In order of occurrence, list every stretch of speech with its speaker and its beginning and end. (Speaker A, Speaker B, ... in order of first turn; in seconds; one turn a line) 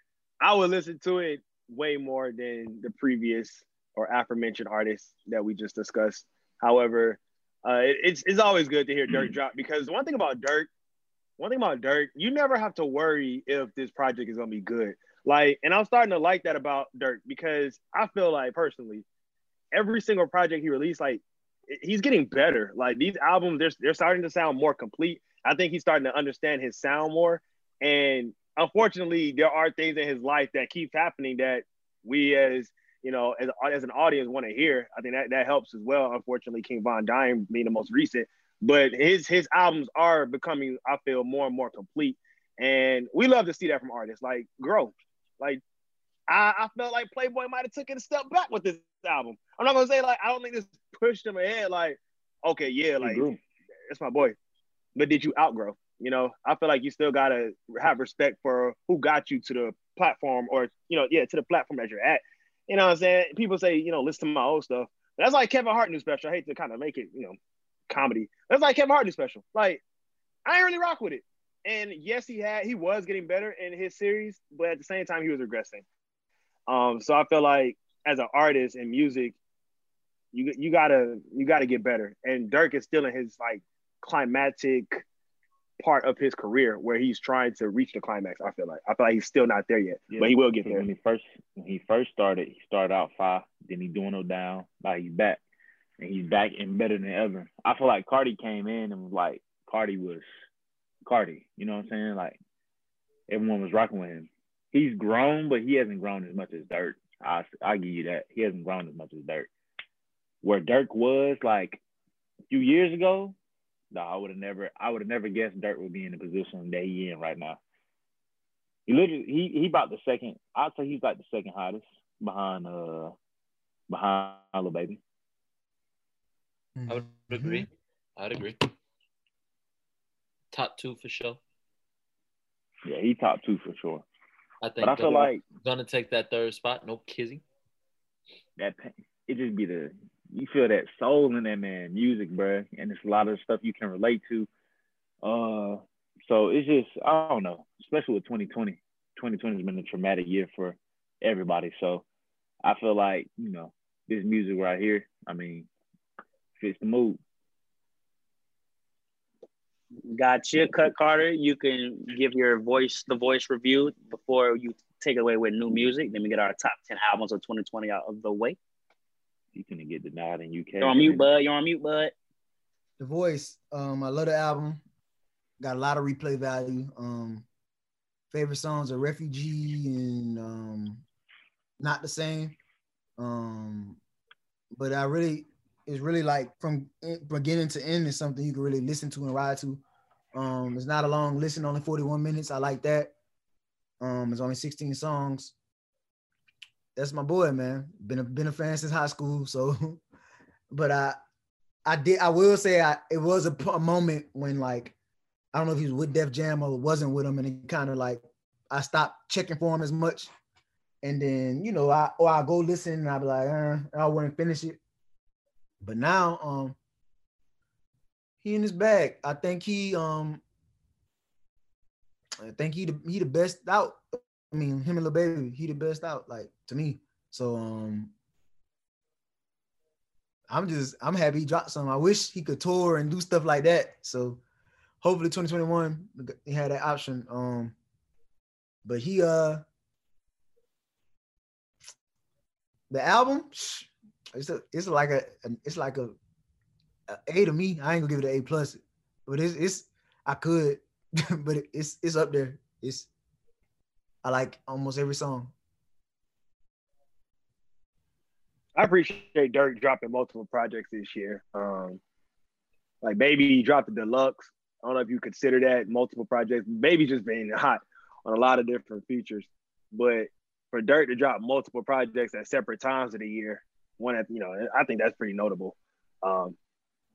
Speaker A: 0.4-10.7
Speaker B: 9.1-9.4
Speaker A: 11.4-19.0
Speaker A: 19.7-45.6
Speaker A: 46.3-53.3
Speaker B: 53.0-53.4
Speaker A: 53.9-54.4
Speaker A: 55.0-67.3
Speaker A: 67.9-69.8
Speaker A: 70.4-75.8
Speaker A: 76.7-79.4
Speaker A: 80.3-85.0
Speaker A: 85.8-90.8
Speaker B: 90.1-95.4
Speaker B: 96.0-100.2
Speaker B: 101.0-102.4
Speaker B: 103.3-109.5
Speaker B: 110.4-111.8
Speaker B: 112.5-113.3
Speaker B: 113.9-117.6
Speaker B: 118.9-123.1
Speaker B: 123.9-125.0
Speaker C: 126.7-127.7
Speaker D: 126.9-128.6
Speaker D: 130.5-131.4
Speaker B: 132.8-134.0
Speaker D: 134.6-137.4
Speaker B: 134.8-135.4
Speaker B: 138.6-144.5
Speaker B: 145.2-152.0
Speaker B: 152.6-155.7
Speaker B: 156.6-157.2
Speaker E: 160.1-168.6
Speaker B: 169.5-171.2
Speaker E: 170.8-172.1
Speaker C: 173.0-174.8
Speaker C: 175.6-177.4
Speaker C: 178.3-181.0
Speaker C: 181.8-182.6
Speaker C: 183.2-184.0
Speaker C: 184.7-189.8
Speaker C: 190.3-193.1
Speaker C: 194.0-195.5
Speaker C: 196.9-200.0
Speaker C: 200.7-201.2
Speaker C: 201.8-204.9
Speaker C: 205.5-210.3
Speaker C: 211.0-214.8
Speaker C: 215.8-216.8
Speaker C: 218.4-220.4
Speaker C: 222.4-228.1
Speaker C: 230.5-234.4
Speaker C: 235.0-237.7
Speaker C: 238.8-239.6
Speaker C: 242.9-246.1
Speaker C: 247.1-253.1
Speaker C: 254.2-255.5
Speaker A: 258.7-262.0
Speaker A: 263.0-276.6